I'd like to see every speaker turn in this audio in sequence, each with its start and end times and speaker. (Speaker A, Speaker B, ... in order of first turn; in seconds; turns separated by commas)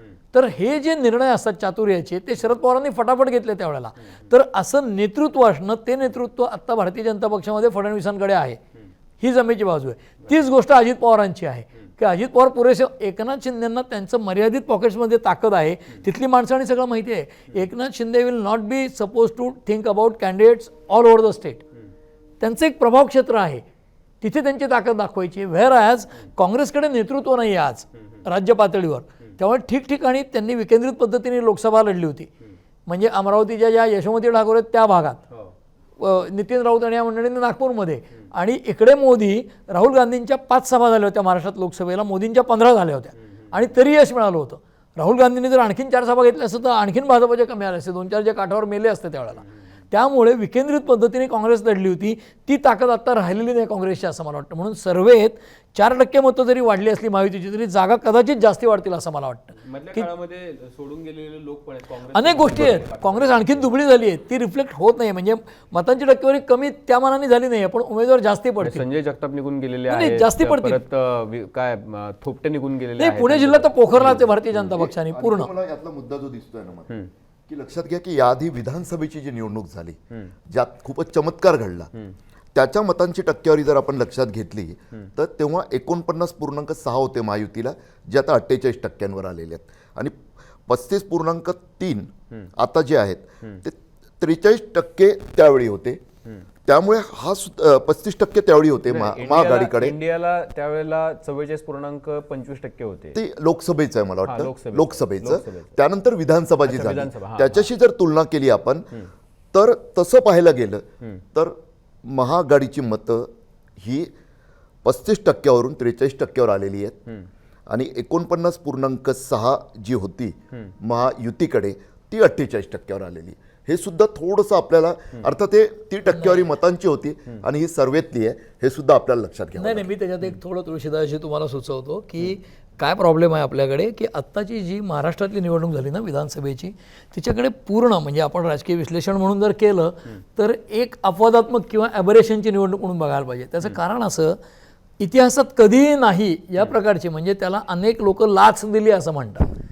Speaker A: 0.3-8.6, Speaker A: 9.2-21.6, Speaker A: 22.4-23.6, Speaker A: 24.2-32.3, Speaker A: 32.9-35.2, Speaker A: 36.0-60.0, Speaker B: 59.6-63.7, Speaker A: 62.1-68.8, Speaker B: 68.6-74.3, Speaker A: 69.9-70.8, Speaker A: 73.0-75.5, Speaker C: 74.5-76.9, Speaker C: 77.5-80.0, Speaker C: 80.5-81.9, Speaker C: 82.5-90.1, Speaker C: 90.7-96.0, Speaker C: 96.7-100.0, Speaker B: 98.9-103.2, Speaker C: 103.1-108.8, Speaker B: 104.2-105.7, Speaker B: 106.7-107.7, Speaker C: 109.5-110.8, Speaker C: 112.1-113.3, Speaker C: 113.8-114.1, Speaker C: 114.8-117.0, Speaker C: 117.7-129.9, Speaker A: 126.1-126.4, Speaker A: 129.6-144.3, Speaker A: 145.0-149.5